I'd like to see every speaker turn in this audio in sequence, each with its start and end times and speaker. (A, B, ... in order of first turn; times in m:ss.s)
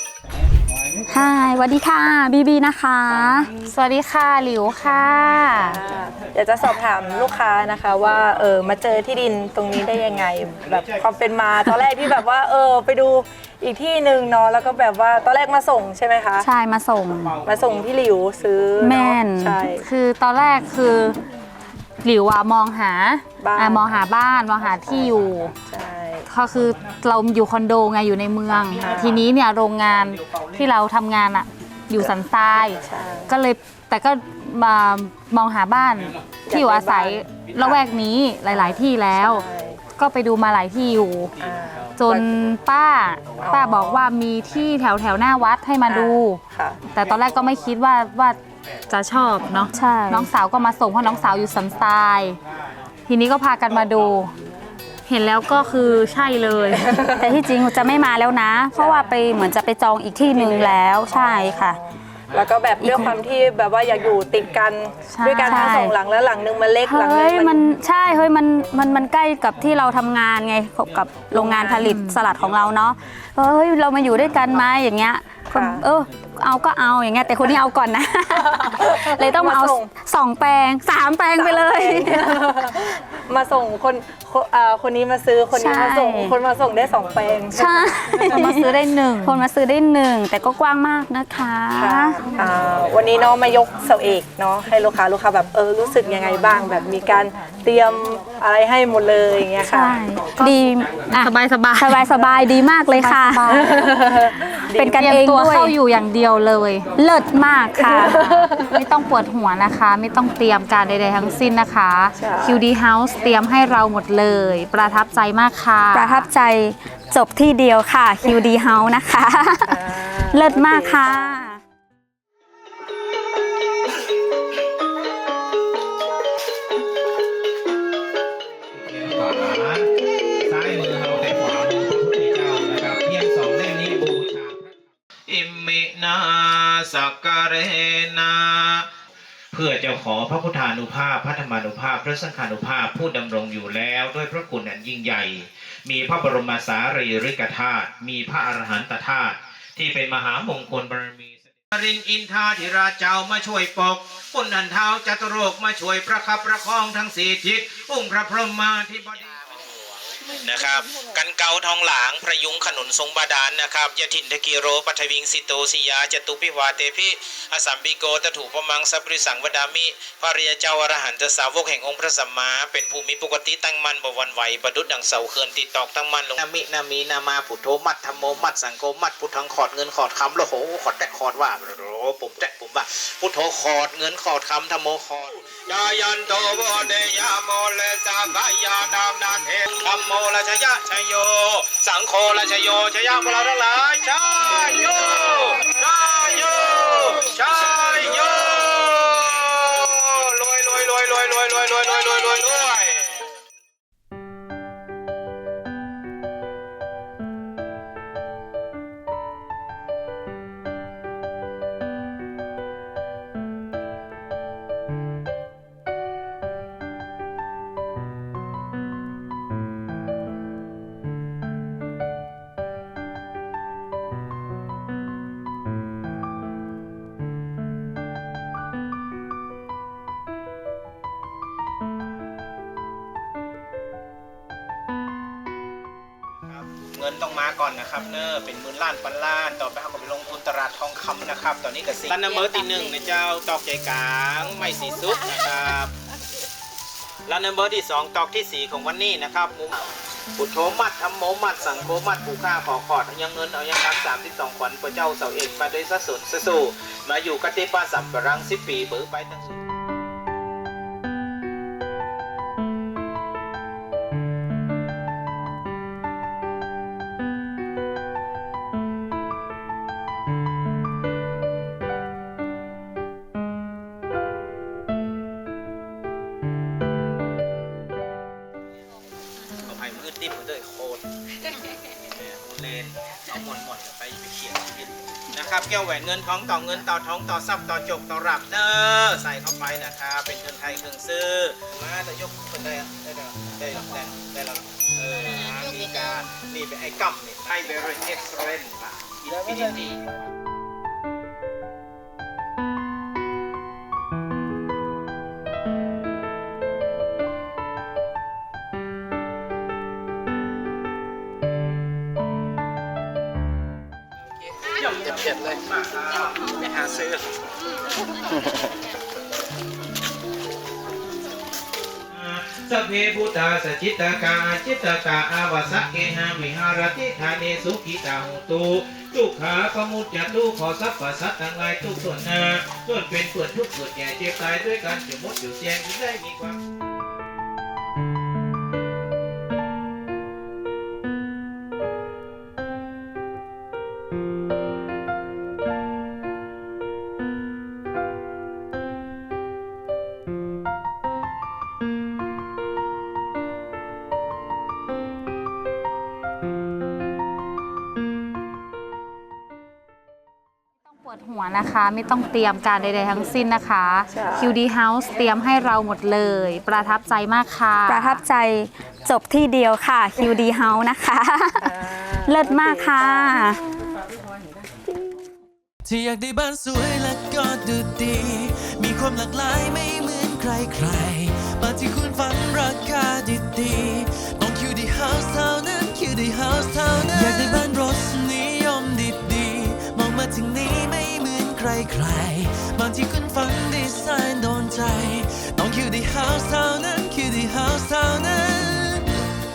0:01.1-0:03.5 A
0:03.6-0:05.8 B
0:05.6-0:16.5 C
0:16.4-0:17.4 A
0:17.4-0:19.9 C
0:18.8-0:19.6 A
0:19.8-0:21.2 B
0:22.0-0:25.5 B
0:23.4-0:23.9 C
0:25.6-0:26.3 C
0:26.3-0:41.4 B
0:32.8-0:33.3 C
0:36.5-0:37.8 C
0:38.5-0:39.8 C
0:41.4-0:42.3 C
0:42.0-0:52.4 B
0:43.4-0:44.0 C
0:45.9-0:46.9 C
0:49.7-0:50.3 A
0:53.1-0:54.3 B
0:55.1-0:57.0 B
0:56.7-0:57.3 C
0:57.2-1:01.8 A
0:58.7-0:59.0 C
1:00.4-1:01.6 C
1:02.3-1:07.6 C
1:02.8-1:03.1 A
1:05.1-1:05.7 B
1:05.2-1:05.9 A
1:06.8-1:22.4 A
1:11.3-1:11.8 C
1:11.8-1:12.3 B
1:15.5-1:15.8 C
1:18.4-1:19.9 C
1:21.3-1:28.2 C
1:25.5-1:26.3 A
1:27.6-1:32.2 A
1:28.3-1:29.4 B
1:31.7-1:40.0 C
1:39.6-1:43.7 A
1:40.4-1:42.1 B
1:42.9-1:43.9 B
1:43.5-1:45.0 C
1:44.7-1:45.7 A
1:45.0-1:46.8 B
1:47.0-1:48.4 A
1:47.8-1:48.7 C
1:48.3-1:56.3 B
1:52.2-1:52.6 C
1:55.9-2:01.6 A
1:59.7-2:01.2 C
2:08.7-2:09.9 D
2:10.4-2:18.9 D
2:19.5-2:39.5 D
2:40.2-3:23.3 D
3:56.4-4:05.9 D
4:07.2-4:19.6 D
4:39.6-4:41.0 D
4:42.0-5:00.1 D
5:14.7-5:17.1 D
5:22.1-5:36.6 D
6:00.9-6:08.2 B
6:04.1-6:04.6 C
6:07.9-6:13.6 A
6:11.6-6:13.4 C
6:15.8-6:39.1 E